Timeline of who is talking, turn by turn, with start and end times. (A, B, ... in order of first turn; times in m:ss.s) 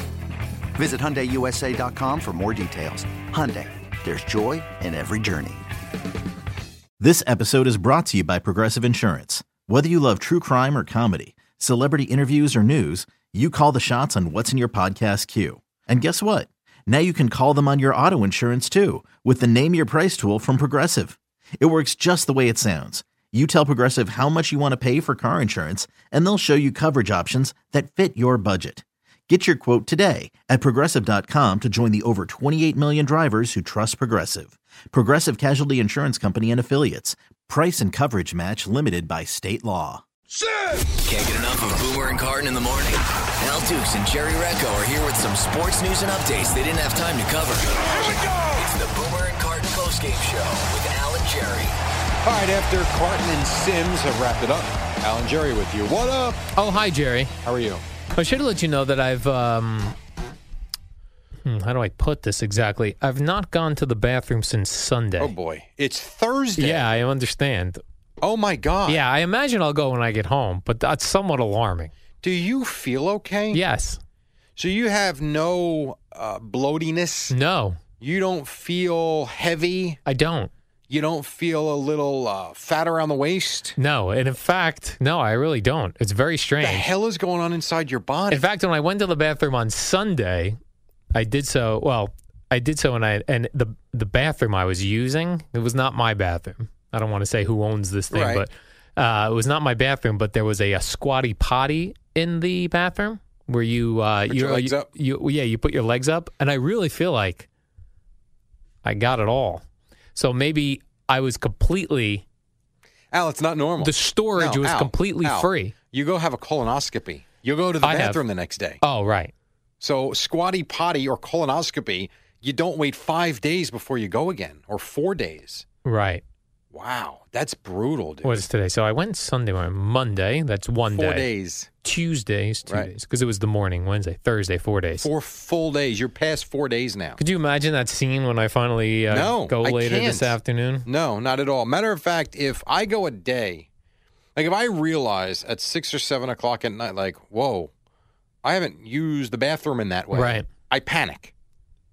0:00.8-0:05.6 A
0:07.0-0:40.0 B
0:41.0-0:48.0 C
0:48.6-0:51.7 C
0:52.2-0:56.5 D
0:56.6-0:57.3 E
0:57.4-0:57.8 D
0:58.2-1:00.0 E
1:01.4-1:05.3 E
1:05.2-1:06.9 D
1:06.6-1:07.8 E
1:08.2-1:09.0 D
1:08.9-1:11.9 E
1:12.2-1:13.6 D
1:13.5-1:14.0 E
1:14.6-1:17.4 D
1:17.3-1:17.8 E
1:18.0-1:20.0 D
1:20.1-1:20.5 E
1:20.9-1:23.8 D
1:23.8-1:26.9 E
1:26.6-1:28.5 D
1:28.3-1:30.6 E
1:31.1-1:47.5 E
1:38.1-1:38.4 D
1:44.3-1:44.9 D
1:48.8-1:49.6 E
1:50.2-1:52.2 E
1:53.1-1:58.8 D
1:53.8-1:55.7 E
1:57.8-1:58.2 E
1:58.8-1:59.3 E
1:59.8-2:05.7 D
2:05.8-2:06.2 E
2:06.7-2:08.5 D
2:08.2-2:11.3 E
2:10.9-2:11.7 D
2:11.8-2:15.1 E
2:15.0-2:17.2 D
2:17.2-2:20.9 E
2:19.1-2:23.7 D
2:24.4-2:27.7 D
2:28.4-2:31.3 D
2:30.1-2:30.5 E